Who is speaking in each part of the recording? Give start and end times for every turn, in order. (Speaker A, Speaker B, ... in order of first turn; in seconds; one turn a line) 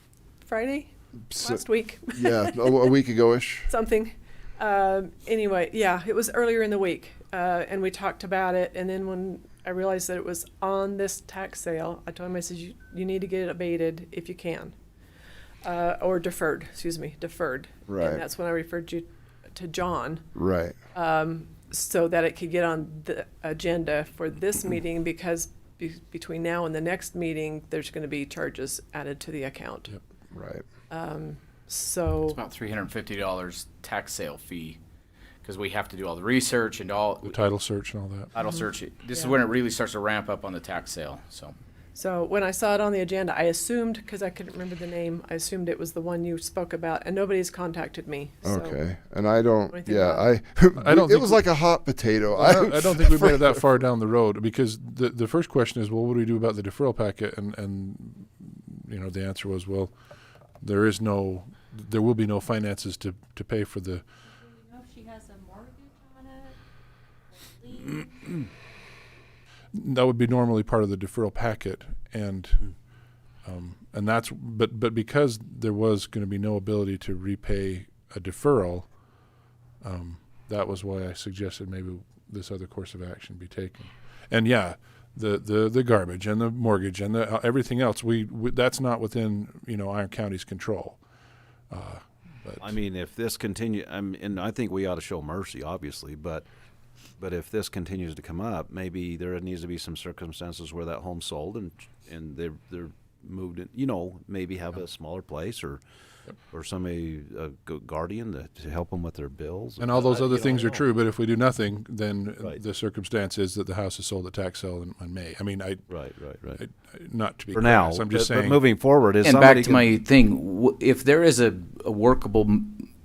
Speaker A: 0.4-2.9
Speaker B: 1.3-1.6
Speaker B: 2.1-3.7
Speaker A: 3.7-14.7
Speaker A: 15.6-20.3
Speaker B: 17.9-18.2
Speaker B: 20.3-20.8
Speaker A: 20.9-29.9
Speaker B: 30.3-30.6
Speaker A: 30.9-32.4
Speaker C: 32.2-34.8
Speaker C: 35.4-37.4
Speaker D: 37.2-38.3
Speaker C: 38.3-41.5
Speaker A: 41.9-48.8
Speaker B: 48.4-53.4
Speaker A: 49.7-50.4
Speaker D: 50.8-51.5
Speaker D: 52.3-59.9
Speaker D: 60.6-64.0
Speaker E: 64.2-66.6
Speaker E: 67.3-68.5
Speaker D: 69.7-72.7
Speaker D: 73.4-78.9
Speaker D: 79.8-91.0
Speaker D: 91.7-92.7
Speaker F: 92.6-96.5
Speaker F: 97.2-105.8
Speaker F: 106.5-110.6
Speaker D: 109.8-115.9
Speaker F: 115.9-116.6
Speaker D: 116.5-118.7
Speaker F: 117.5-119.9
Speaker C: 119.2-122.9